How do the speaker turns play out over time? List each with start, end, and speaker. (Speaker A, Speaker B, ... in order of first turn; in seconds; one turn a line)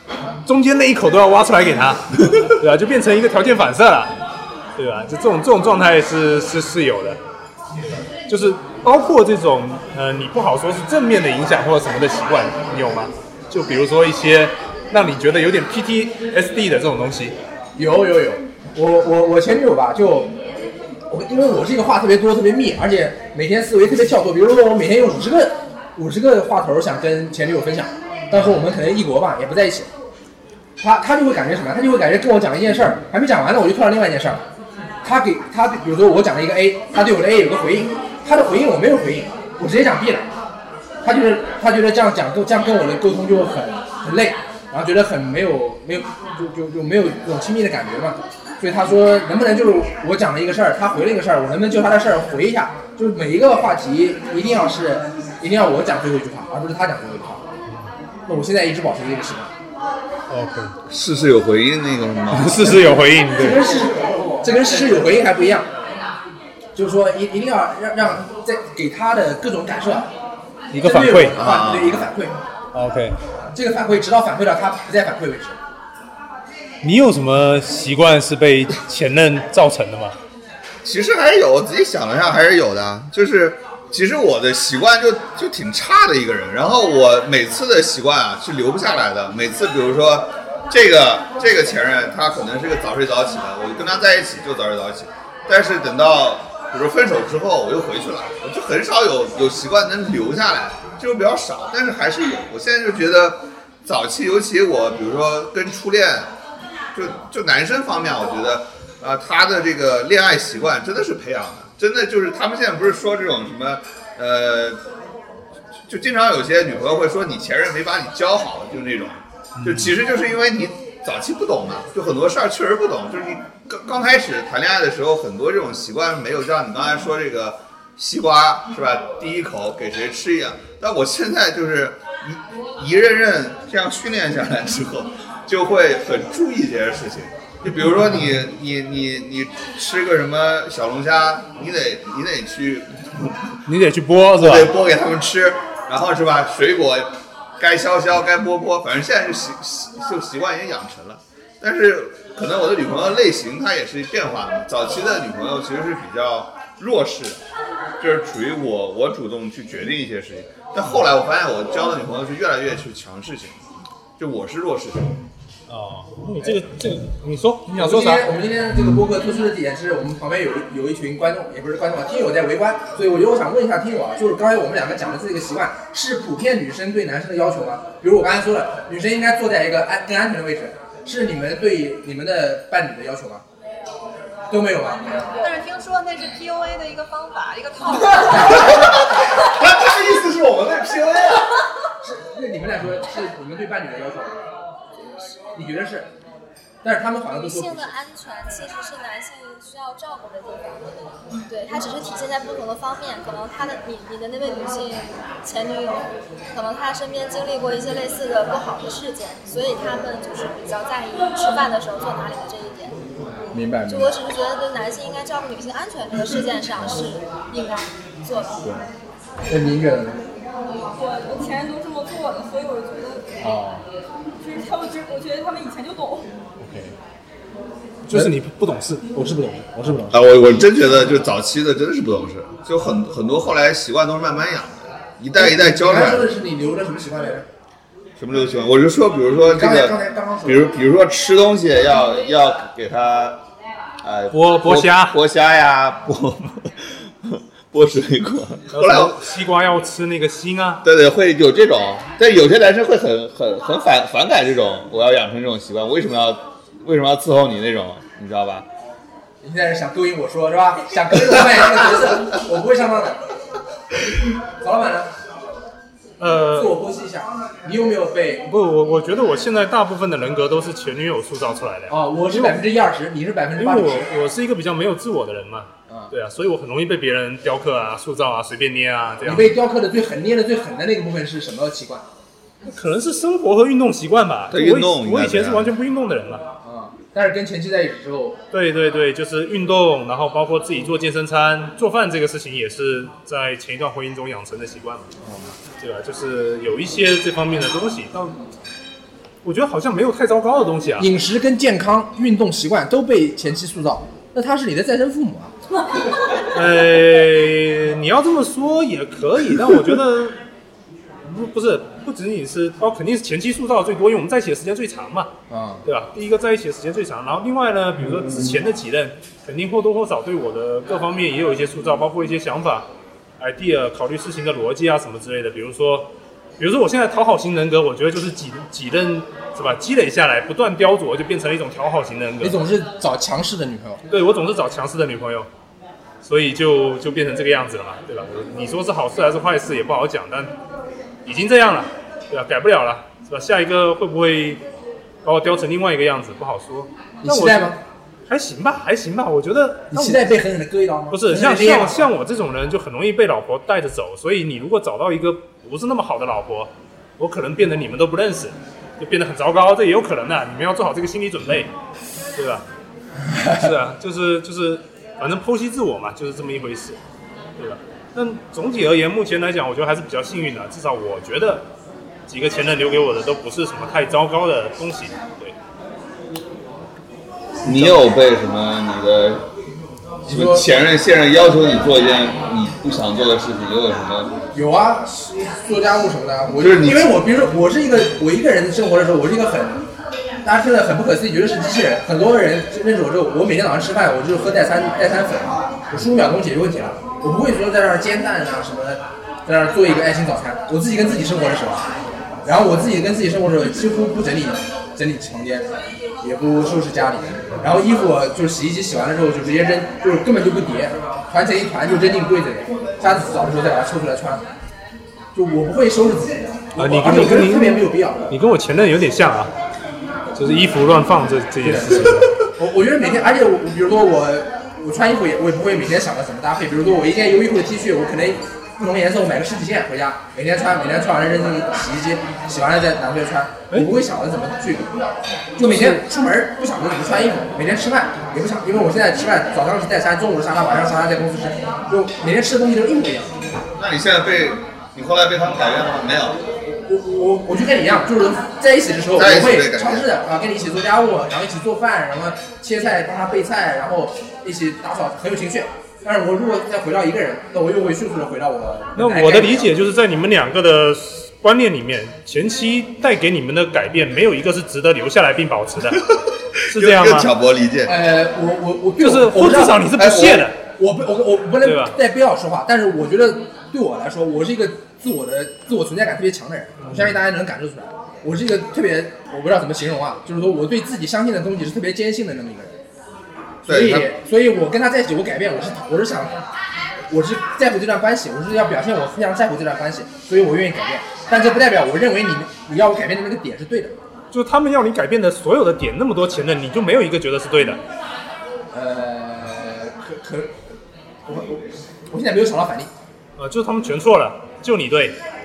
Speaker A: 0.5-4.1
Speaker A: 4.8-7.2
Speaker A: 8.3-17.4
Speaker B: 17.8-20.3
Speaker B: 21.1-29.9
Speaker B: 30.8-34.4
Speaker B: 35.0-40.3
Speaker B: 41.0-57.4
Speaker B: 58.3-59.5
Speaker A: 60.3-60.7
Speaker C: 60.9-62.8
Speaker A: 62.3-63.6
Speaker B: 63.3-65.7
Speaker B: 66.8-70.1
Speaker A: 70.7-71.4
Speaker B: 70.8-72.4
Speaker C: 71.3-72.1
Speaker A: 72.7-73.2
Speaker B: 73.5-75.6
Speaker A: 76.8-80.2
Speaker C: 80.8-106.3
Speaker C: 106.9-114.8
Speaker C: 115.9-143.5
Speaker A: 119.6-120.0
Speaker A: 143.7-144.7
Speaker C: 144.3-157.4
Speaker C: 158.0-163.6
Speaker C: 164.2-165.1
Speaker A: 165.7-168.3
Speaker B: 167.7-183.4
Speaker B: 184.5-185.3
Speaker D: 185.4-188.9
Speaker C: 188.2-191.5
Speaker B: 192.0-194.3
Speaker E: 195.0-195.3
Speaker B: 195.6-196.1
Speaker B: 196.8-198.0
Speaker E: 197.3-212.9
Speaker B: 213.5-214.1
Speaker E: 213.9-218.7
Speaker B: 219.5-220.2
Speaker F: 220.9-223.3
Speaker B: 223.4-223.8
Speaker F: 224.4-226.3
Speaker A: 228.1-229.1
Speaker B: 229.1-230.2
Speaker C: 230.1-236.3
Speaker B: 235.3-237.5
Speaker C: 238.2-243.4
Speaker B: 239.4-240.7
Speaker C: 244.0-249.2
Speaker A: 244.3-245.2
Speaker A: 248.7-250.8
Speaker C: 250.8-258.7
Speaker B: 259.4-263.2
Speaker B: 264.6-265.1
Speaker A: 266.2-266.8
Speaker B: 266.5-268.4
Speaker A: 268.5-272.6
Speaker B: 271.9-274.1
Speaker A: 273.6-279.5
Speaker B: 279.2-282.1
Speaker A: 282.7-286.4
Speaker C: 284.5-285.7
Speaker B: 286.6-288.4
Speaker A: 288.5-295.1
Speaker B: 295.2-295.5
Speaker A: 295.8-298.3
Speaker A: 299.4-301.1
Speaker B: 301.0-305.5
Speaker A: 306.5-310.4
Speaker A: 311.2-315.3
Speaker B: 315.5-315.8
Speaker A: 315.9-322.9
Speaker A: 323.4-332.6
Speaker B: 332.4-334.0
Speaker A: 334.1-335.5
Speaker A: 336.2-340.5
Speaker A: 341.3-344.6
Speaker A: 345.2-347.8
Speaker B: 347.2-347.8
Speaker A: 348.3-350.2
Speaker B: 349.9-352.1
Speaker A: 351.1-361.7
Speaker A: 362.4-362.6
Speaker B: 363.3-363.6
Speaker A: 363.5-367.0
Speaker A: 367.6-371.7
Speaker A: 372.3-375.6
Speaker C: 377.6-379.4
Speaker B: 377.6-378.0
Speaker B: 380.3-380.6
Speaker C: 380.3-384.4
Speaker B: 384.5-389.8
Speaker C: 386.6-387.1
Speaker B: 390.4-401.9
Speaker B: 402.4-405.7
Speaker B: 406.2-414.4
Speaker B: 415.4-418.3
Speaker A: 416.8-419.5
Speaker A: 420.4-422.3
Speaker B: 421.6-434.9
Speaker B: 435.6-443.3
Speaker A: 435.6-436.0
Speaker C: 443.8-446.4
Speaker B: 446.9-459.7
Speaker C: 449.1-450.1
Speaker A: 459.0-466.1
Speaker C: 466.2-468.0
Speaker A: 466.7-467.3
Speaker B: 467.9-482.8
Speaker A: 469.0-470.6
Speaker C: 470.0-470.4
Speaker A: 471.6-472.0
Speaker A: 476.8-477.2
Speaker B: 483.6-486.4
Speaker C: 483.7-484.1
Speaker B: 487.1-493.9
Speaker A: 494.3-497.8
Speaker B: 498.7-500.5
Speaker B: 501.3-502.9
Speaker A: 503.4-505.2